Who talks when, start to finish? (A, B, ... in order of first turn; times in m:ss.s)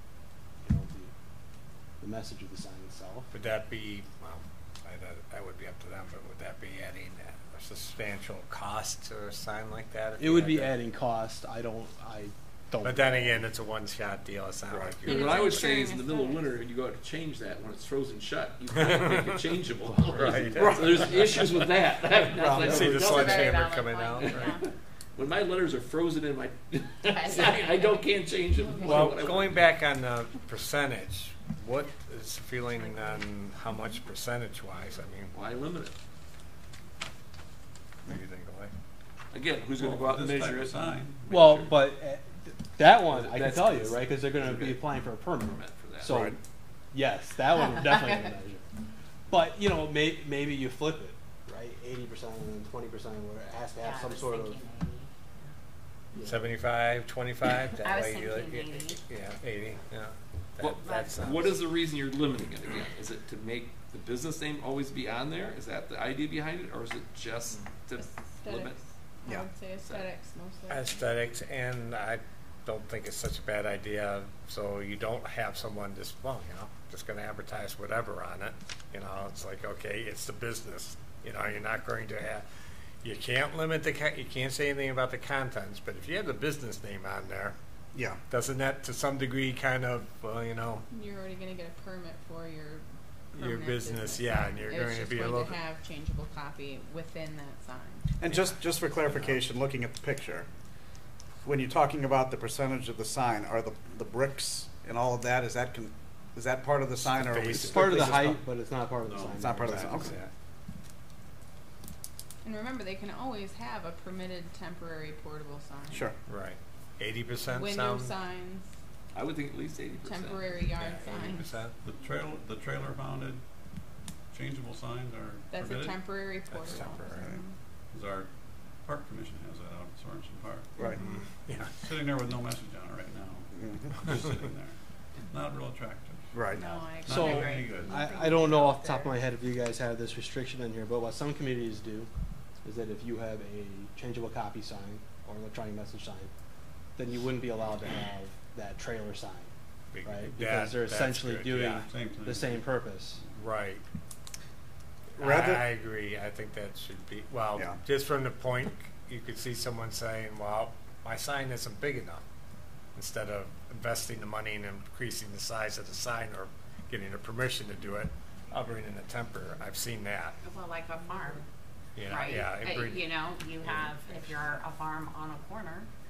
0:00.6-0:01.1 A
0:02.0-0:03.3 A
0:03.3-0:10.7 B
0:10.2-0:13.4 A
0:12.8-0:15.8 B
0:14.7-0:15.1 C
0:15.0-0:16.5 D
0:15.1-0:29.7 E
0:18.9-0:19.2 B
0:20.0-0:21.6 B
0:20.6-0:21.0 C
0:22.4-0:23.2 C
0:22.5-0:24.6 F
0:22.6-0:24.6 B
0:27.1-0:28.0 F
0:28.8-0:29.1 F
0:28.8-0:35.3 B
0:32.8-0:33.2 D
0:35.3-0:35.9 E
0:38.0-0:38.7 B
0:39.3-0:41.9 E
0:39.8-0:41.2 G
0:41.3-0:46.4 A
0:43.1-0:46.2 E
0:46.0-0:46.4 C
0:46.9-0:48.6 A
0:49.3-0:54.6 A
0:53.8-0:55.1 F
0:56.1-0:56.4 A
0:56.2-1:01.6 B
0:57.8-0:59.0 F
1:00.6-1:08.8 E
1:00.8-1:01.1 F
1:07.9-1:11.0 D
1:09.8-1:10.1 E
1:10.7-1:22.4 B
1:23.0-1:27.6 B
1:27.9-1:28.2 C
1:28.3-1:30.8 B
1:30.9-1:38.1 D
1:33.3-1:35.6 B
1:38.2-1:40.5 C
1:38.3-1:39.4 B
1:41.4-1:48.1 C
1:47.0-1:48.4 B
1:47.6-1:50.1 A
1:49.0-1:49.4 G
1:49.4-1:50.2 C
1:49.6-1:50.3 B
1:52.4-1:56.1 D
1:56.2-1:58.2 B
1:57.5-1:58.7 D
1:59.1-2:00.6 E
2:00.0-2:01.6 D
2:00.7-2:01.8 B
2:01.8-2:03.4 G
2:04.3-2:06.8 G
2:05.5-2:07.6 D
2:06.5-2:07.4 B
2:07.9-2:10.8 G
2:10.8-2:11.2 D
2:11.0-2:11.7 B
2:11.6-2:17.9 G
2:13.6-2:13.9 C
2:16.3-2:16.7 C
2:16.6-2:19.2 D
2:17.1-2:22.1 A
2:22.6-2:26.3 A
2:27.0-2:29.5 A
2:29.9-2:31.9 B
2:30.0-2:33.2 A
2:31.9-2:33.3 G
2:33.4-2:33.8 B
2:35.2-2:42.2 B
2:35.2-2:35.6 C
2:42.9-2:50.4 B
2:50.5-2:51.4 F
2:50.6-2:51.4 D
2:52.0-2:53.9 B
2:52.0-2:55.9 F
2:54.1-2:54.6 D